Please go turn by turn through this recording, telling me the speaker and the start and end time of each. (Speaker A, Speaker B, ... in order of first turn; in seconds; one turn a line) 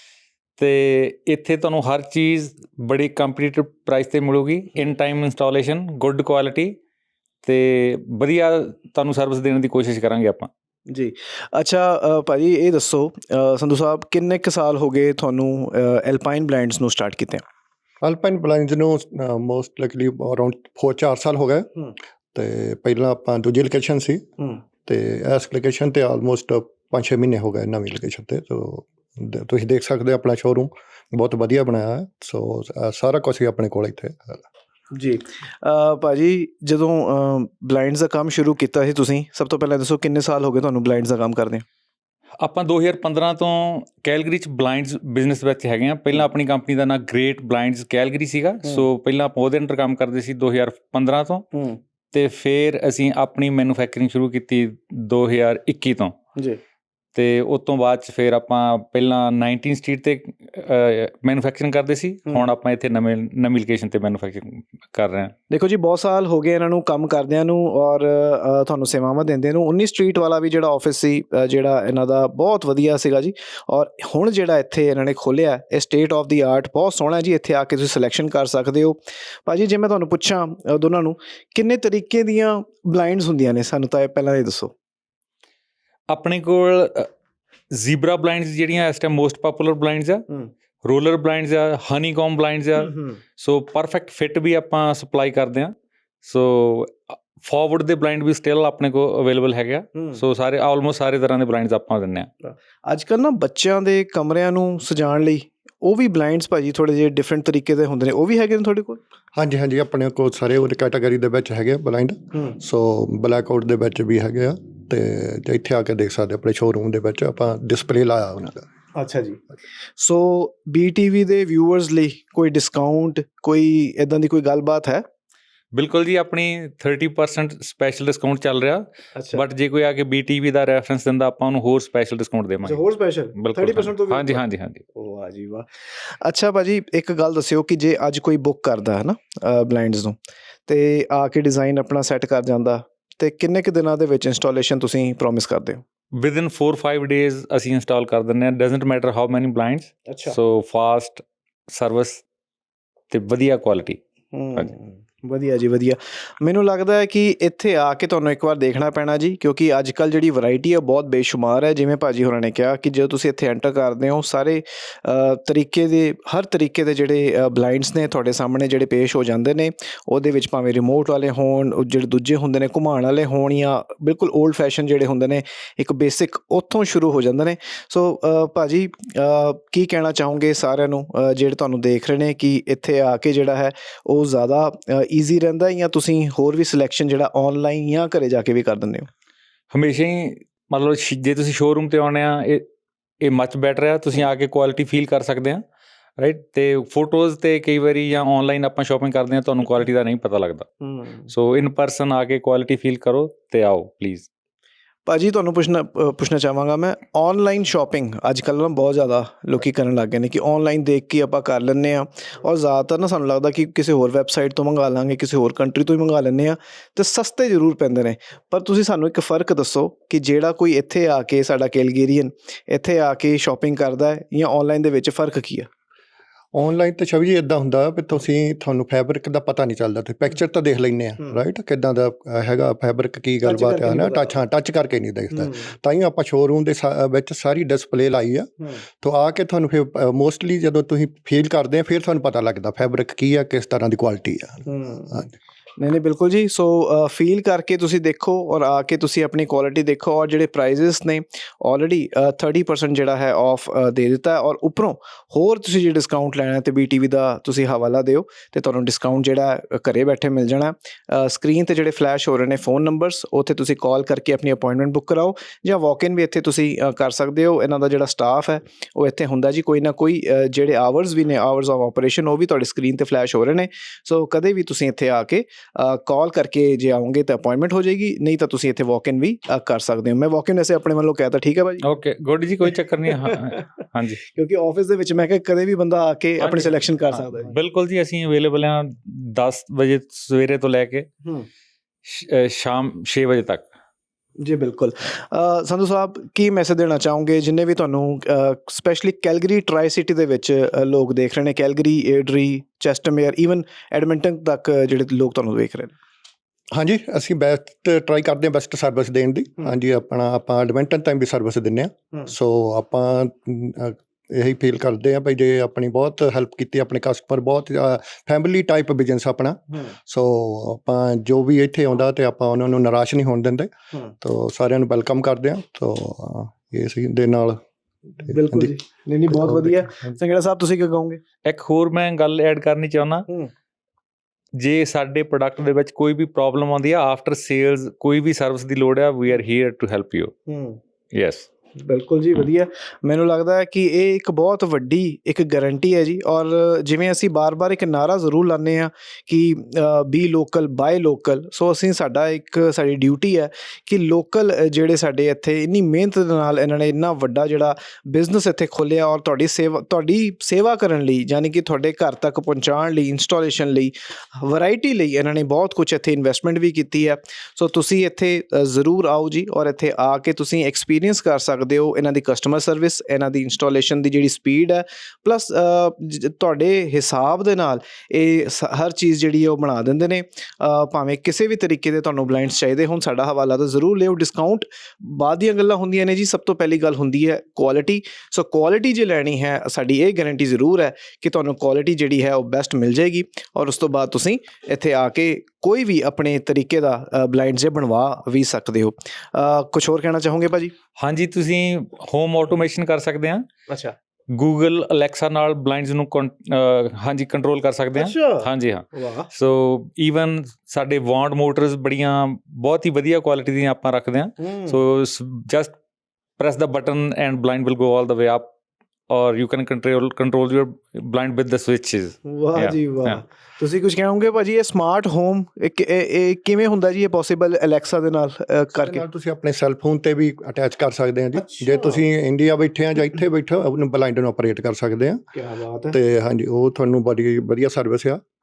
Speaker A: 0.6-6.7
Speaker A: 7.4-10.5
Speaker B: 10.9-17.4
Speaker C: 18.0-21.7
Speaker C: 22.3-24.3
Speaker C: 24.8-34.4
Speaker B: 34.9-41.6
Speaker A: 42.4-51.5
Speaker B: 48.6-48.9
Speaker B: 51.5-51.8
Speaker A: 52.1-56.1
Speaker A: 57.1-65.3
Speaker B: 65.5-84.7
Speaker A: 86.1-87.1
Speaker A: 87.7-90.2
Speaker A: 90.8-102.3
Speaker B: 102.4-109.0
Speaker C: 109.3-118.6
Speaker B: 118.9-119.4
Speaker B: 120.0-125.0
Speaker A: 125.7-134.8
Speaker B: 129.1-129.4
Speaker B: 132.6-134.4
Speaker B: 134.9-140.2
Speaker B: 140.7-145.8
Speaker A: 146.2-152.2
Speaker B: 150.1-150.4
Speaker A: 153.1-154.0
Speaker B: 154.3-189.1
Speaker A: 189.7-192.7
Speaker A: 193.2-195.6
Speaker A: 196.2-200.7
Speaker B: 200.8-201.3
Speaker A: 201.3-204.3
Speaker B: 205.1-225.7
Speaker C: 226.5-245.3
Speaker B: 233.4-234.4
Speaker B: 235.3-235.7
Speaker B: 244.7-245.1
Speaker B: 245.8-281.8
Speaker A: 281.8-284.2
Speaker B: 283.1-283.6
Speaker B: 284.3-287.5
Speaker A: 286.4-291.1
Speaker A: 292.1-293.7
Speaker B: 294.4-305.9
Speaker C: 306.7-327.6
Speaker C: 328.2-328.8
Speaker B: 328.3-331.2
Speaker C: 329.3-330.1
Speaker A: 331.4-333.2
Speaker A: 334.6-340.3
Speaker B: 340.5-340.8
Speaker A: 341.1-341.5
Speaker B: 341.8-400.7
Speaker A: 401.0-403.5
Speaker B: 403.7-403.9
Speaker A: 404.3-415.7
Speaker B: 407.9-409.3
Speaker B: 414.4-414.8
Speaker A: 416.4-418.5
Speaker A: 419.1-423.2
Speaker B: 422.2-429.0
Speaker C: 428.8-435.2
Speaker B: 431.4-432.0
Speaker B: 435.3-436.0
Speaker C: 435.9-438.2